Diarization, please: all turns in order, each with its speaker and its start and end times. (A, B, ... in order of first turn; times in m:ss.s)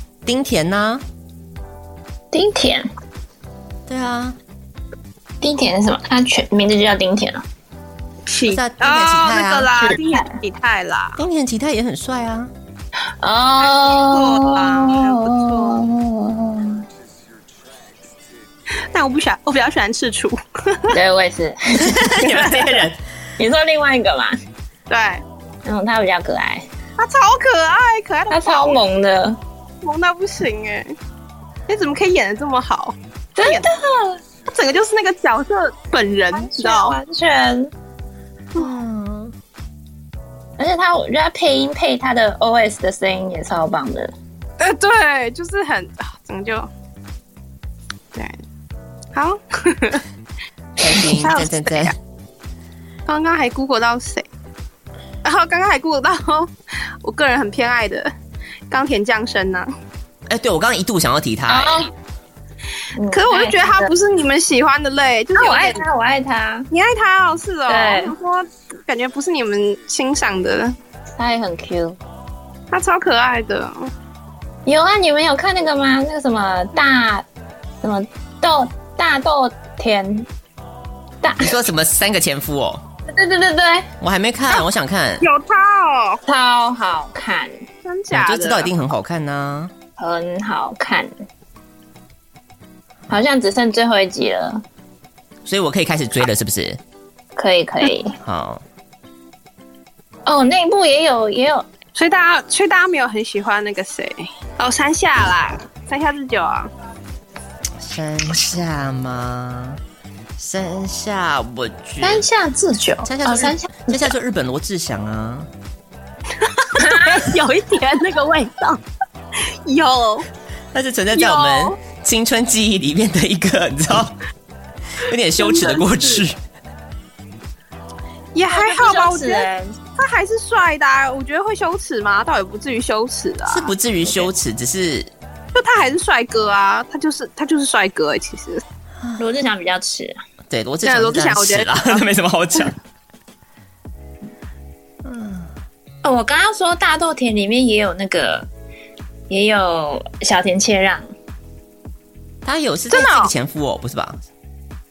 0:00.2-0:01.0 A
0:02.3-0:02.9 B
0:03.9-0:04.4 A
0:05.4-0:07.4 B
0:08.3-0:11.2 C
0:08.5-0:09.7 A
0:09.9-0:10.2 B
0:11.2-0:12.5 A
0:13.2-0:16.8 B
0:13.6-0:15.8 C
0:18.9-0:20.9 C
0:20.9-0:22.5 B
0:21.8-0:23.0 A
0:23.4-0:24.4 B
0:24.9-0:25.2 C
0:25.6-0:26.7 B
0:27.0-0:28.8 C
0:28.3-0:29.4 B
0:29.8-0:31.0 C
0:31.7-0:33.7 C
0:33.4-0:34.2 B
0:34.5-0:37.0 C
0:36.3-0:37.7 B
0:38.6-0:39.4 A
0:40.6-0:44.1 B
0:44.6-0:46.7 C
0:48.1-0:48.4 C
0:49.2-0:50.0 C
0:50.8-0:52.0 A
0:51.0-0:51.9 C
0:53.1-0:54.3 C
0:55.2-0:58.1 C
0:58.7-0:59.7 C
1:00.3-1:01.8 A
1:01.5-1:01.9 B
1:03.0-1:03.9 B
1:03.1-1:05.8 C
1:05.4-1:06.7 B
1:06.7-1:10.8 C
1:07.7-1:08.1 B
1:11.2-1:12.0 B
1:12.7-1:13.9 C
1:14.7-1:17.2 B
1:17.8-1:20.3 B
1:21.2-1:21.5 B
1:21.4-1:22.8 A
1:23.1-1:23.9 B
1:24.0-1:25.2 A
1:25.2-1:26.2 C
1:26.3-1:27.5 B
1:27.8-1:28.7 C
1:28.1-1:29.7 A
1:30.0-1:31.1 B
1:33.1-1:34.6 B
1:35.4-1:36.8 A
1:37.4-1:38.2 B
1:38.2-1:38.6 A
1:40.3-1:41.7 B
1:42.0-1:46.7 C
1:47.8-1:49.8 A
1:50.4-1:52.3 A
1:52.0-1:54.1 B
1:53.0-1:55.5 A
1:56.4-1:58.8 C
1:56.8-1:57.2 B
1:59.4-2:00.3 C
2:00.7-2:04.2 A
2:01.1-2:01.8 C
2:05.0-2:06.4 A
2:05.4-2:06.2 C
2:08.4-2:13.7 C
2:08.5-2:09.8 B
2:13.5-2:15.1 A
2:15.6-2:18.6 C
2:19.2-2:20.2 B
2:20.5-2:22.8 A
2:20.8-2:22.0 C
2:25.0-2:25.5 A
2:26.0-2:28.5 B
2:29.3-2:31.0 B
2:32.4-2:34.2 A
2:32.9-2:33.3 C